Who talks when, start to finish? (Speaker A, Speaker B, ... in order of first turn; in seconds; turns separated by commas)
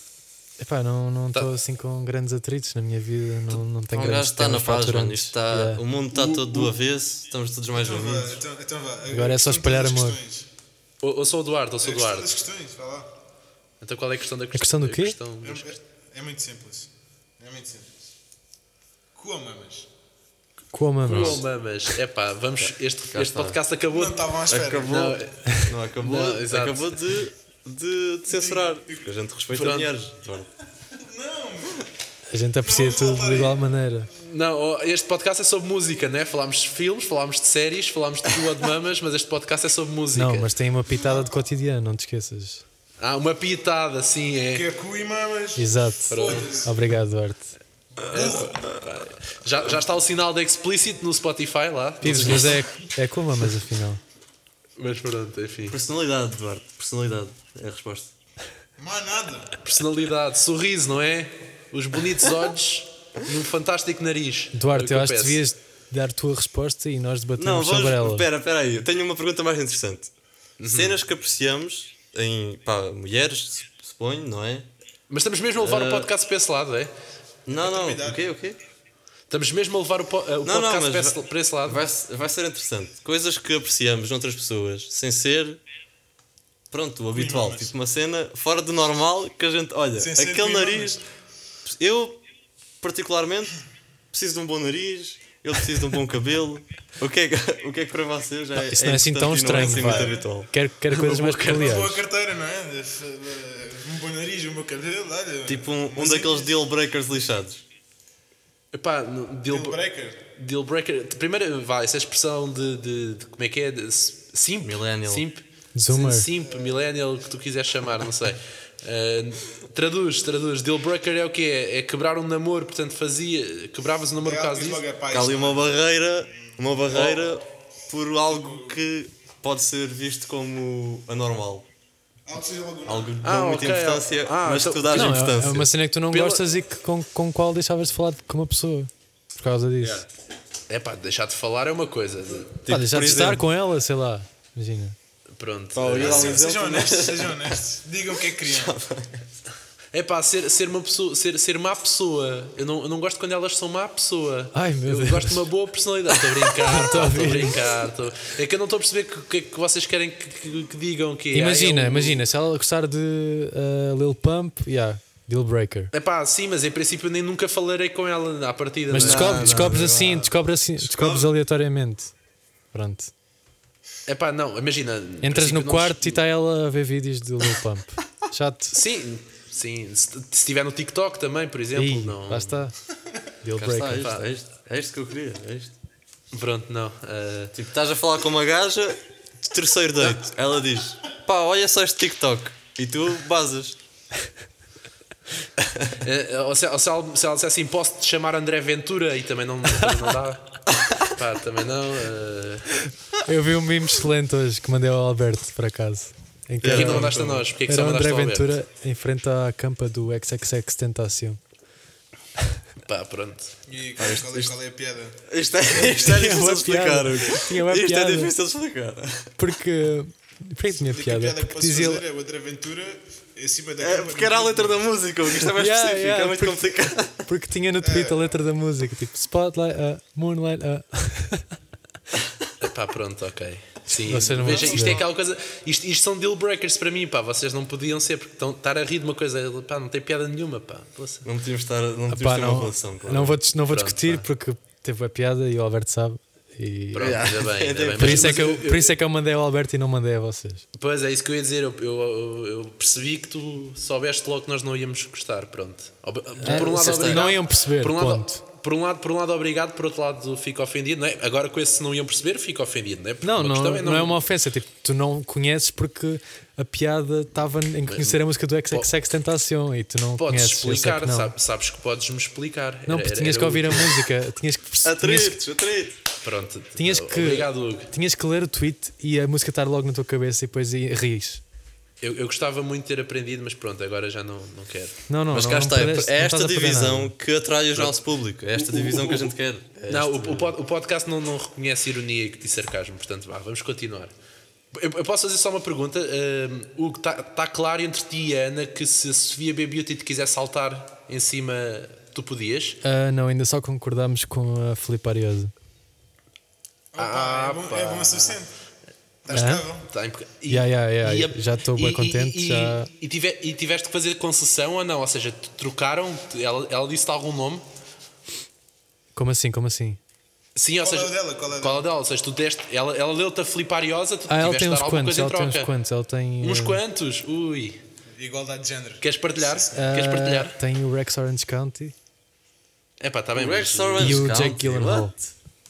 Speaker A: 0.6-5.8, Speaker B: 3.9-8.4, Speaker C: 6.2-6.7, Speaker D: 7.7-10.5, Speaker A: 9.1-10.2, Speaker C: 11.0-12.3, Speaker D: 11.8-13.1, Speaker C: 13.8-15.8, Speaker A: 14.5-15.2, Speaker D: 15.4-17.9, Speaker D: 19.1-19.9, Speaker A: 20.7-21.4, Speaker C: 21.0-26.9, Speaker B: 21.1-21.4, Speaker B: 23.1-23.6, Speaker D: 23.9-25.0, Speaker B: 24.5-30.5, Speaker D: 28.3-29.1, Speaker C: 29.5-29.9, Speaker D: 30.9-31.9, Speaker A: 32.3-34.1, Speaker D: 32.6-33.8, Speaker C: 34.2-40.5, Speaker A: 40.1-42.6, Speaker C: 43.0-44.7, Speaker D: 44.5-46.7, Speaker A: 45.6-47.5, Speaker C: 46.1-46.6, Speaker D: 48.0-48.6, Speaker B: 48.1-48.8, Speaker C: 48.1-52.7, Speaker A: 52.0-54.0, Speaker C: 54.8-55.8, Speaker B: 55.7-58.1, Speaker D: 58.8-59.6, Speaker C: 59.6-65.4, Speaker A: 64.5-68.3, Speaker B: 67.4-70.1, Speaker C: 70.6-71.0, Speaker B: 70.6-74.7, Speaker C: 75.1-76.9, Speaker B: 75.6-76.1, Speaker B: 77.5-78.6, Speaker D: 77.5-78.3, Speaker C: 79.3-81.8, Speaker B: 80.4-85.6, Speaker B: 86.7-91.0, Speaker D: 87.1-87.7, Speaker D: 90.0-91.0, Speaker B: 91.7-92.2, Speaker B: 92.8-93.6, Speaker B: 94.1-100.5, Speaker A: 98.6-102.0, Speaker D: 99.5-100.3, Speaker C: 100.9-101.8, Speaker D: 101.4-106.5, Speaker B: 105.5-107.6, Speaker C: 108.7-124.8, Speaker D: 109.5-110.2, Speaker B: 114.6-115.3, Speaker A: 115.8-116.3, Speaker D: 124.2-125.9, Speaker B: 125.1-131.7, Speaker D: 126.4-127.2, Speaker D: 128.3-128.8, Speaker D: 132.3-133.2, Speaker B: 132.8-135.7, Speaker C: 133.2-135.3, Speaker A: 134.9-140.0, Speaker C: 136.1-136.4, Speaker C: 140.7-142.6, Speaker B: 142.6-143.4, Speaker A: 142.7-145.0, Speaker C: 145.3-146.4, Speaker B: 145.7-147.6, Speaker D: 145.9-148.7, Speaker B: 148.4-149.3, Speaker C: 149.9-162.2, Speaker A: 154.5-155.4, Speaker A: 156.7-157.6, Speaker A: 161.3-165.9, Speaker C: 165.9-169.8, Speaker A: 168.9-172.1, Speaker B: 168.9-171.3, Speaker A: 172.7-173.1, Speaker C: 174.1-176.2, Speaker A: 175.2-178.8, Speaker C: 178.7-182.6, Speaker A: 181.8-182.8, Speaker A: 183.4-184.2, Speaker B: 183.6-185.8, Speaker C: 186.3-187.5, Speaker B: 187.5-193.8, Speaker C: 195.9-202.8, Speaker A: 203.2-211.4, Speaker B: 206.6-207.5, Speaker C: 206.7-208.5, Speaker C: 212.8-213.6, Speaker D: 213.7-216.2, Speaker B: 214.0-214.6, Speaker B: 215.3-219.4, Speaker A: 215.9-218.3, Speaker A: 219.4-222.0, Speaker D: 220.7-224.8, Speaker B: 223.8-227.3, Speaker A: 225.5-231.5, Speaker D: 227.8-228.3, Speaker C: 232.6-241.3, Speaker A: 234.0-235.0, Speaker B: 234.4-234.9, Speaker B: 241.2-243.4, Speaker A: 242.1-247.2, Speaker C: 243.7-244.3, Speaker C: 246.9-249.0, Speaker B: 247.0-248.6, Speaker A: 248.0-250.7, Speaker C: 250.8-264.2, Speaker B: 256.4-257.3, Speaker A: 256.4-258.4, Speaker A: 263.2-271.3, Speaker C: 267.9-268.2, Speaker C: 270.2-274.1, Speaker A: 272.9-275.4, Speaker B: 274.8-276.0, Speaker C: 276.2-277.9, Speaker A: 276.8-281.4, Speaker C: 282.0-285.0, Speaker A: 285.1-287.1, Speaker B: 285.3-289.8, Speaker C: 287.7-289.3, Speaker A: 289.8-290.5, Speaker C: 289.9-294.1, Speaker C: 294.7-302.8, Speaker A: 302.8-305.5, Speaker D: 306.9-308.5, Speaker C: 307.0-308.4, Speaker D: 309.2-309.9, Speaker A: 309.3-309.7, Speaker C: 309.8-317.6, Speaker A: 310.5-312.9, Speaker A: 319.1-320.0, Speaker C: 320.6-325.7, Speaker D: 320.8-321.9, Speaker A: 324.3-326.8, Speaker C: 326.4-327.8, Speaker D: 328.2-329.9, Speaker C: 329.0-330.6, Speaker A: 329.7-331.9, Speaker C: 333.0-334.3, Speaker B: 333.3-335.2, Speaker A: 334.0-335.2